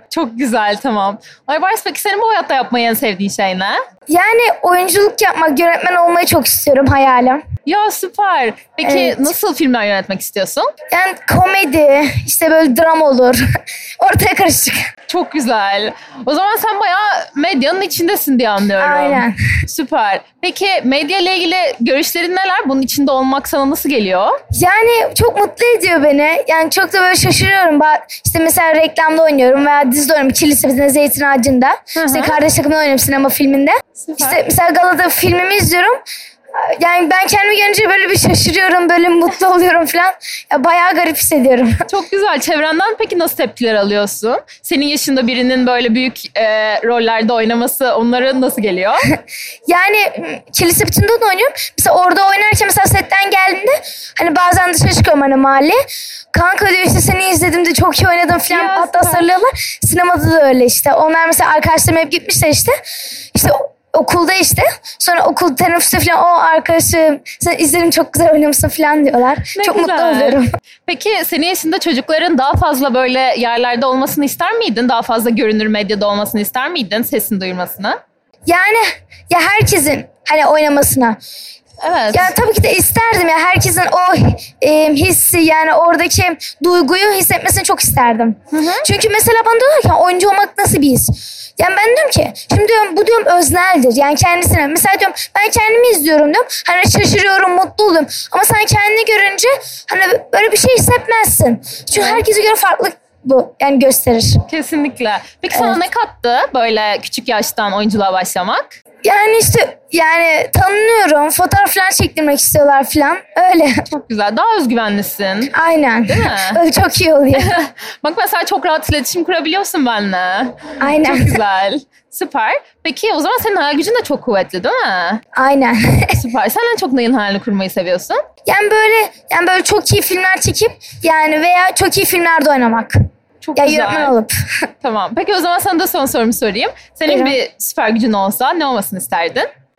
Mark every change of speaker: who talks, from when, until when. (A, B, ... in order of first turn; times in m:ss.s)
0:00.1-0:03.8 A
0:04.1-0:07.4 B
0:07.6-0:10.7 A
0:08.8-0:09.3 B
0:10.9-0:13.4 B
0:14.0-0:14.8 B
0:15.1-0:24.4 A
0:18.8-0:19.3 B
0:24.5-0:35.9 B
0:31.9-0:32.4 A
0:34.0-0:34.4 A
0:36.6-0:41.8 B
0:41.9-0:49.1 A
0:49.7-0:55.8 B
0:56.3-1:02.7 B
0:58.5-0:59.2 A
1:03.3-1:10.4 B
1:09.5-1:18.0 A
1:18.4-1:21.2 B
1:21.8-1:22.3 A
1:22.1-1:44.4 B
1:28.5-1:28.8 A
1:41.9-1:42.2 A
1:44.5-1:48.7 A
1:45.5-1:45.8 B
1:49.0-1:53.8 B
1:53.9-1:55.5 A
1:55.5-1:57.5 B
1:56.0-1:56.6 A
1:57.4-2:05.2 A
2:00.8-2:01.4 B
2:05.4-2:06.2 B
2:06.2-2:08.2 A
2:08.4-2:12.9 B
2:13.4-2:14.1 A
2:13.6-2:14.3 B
2:14.8-2:19.5 A
2:17.1-2:17.4 B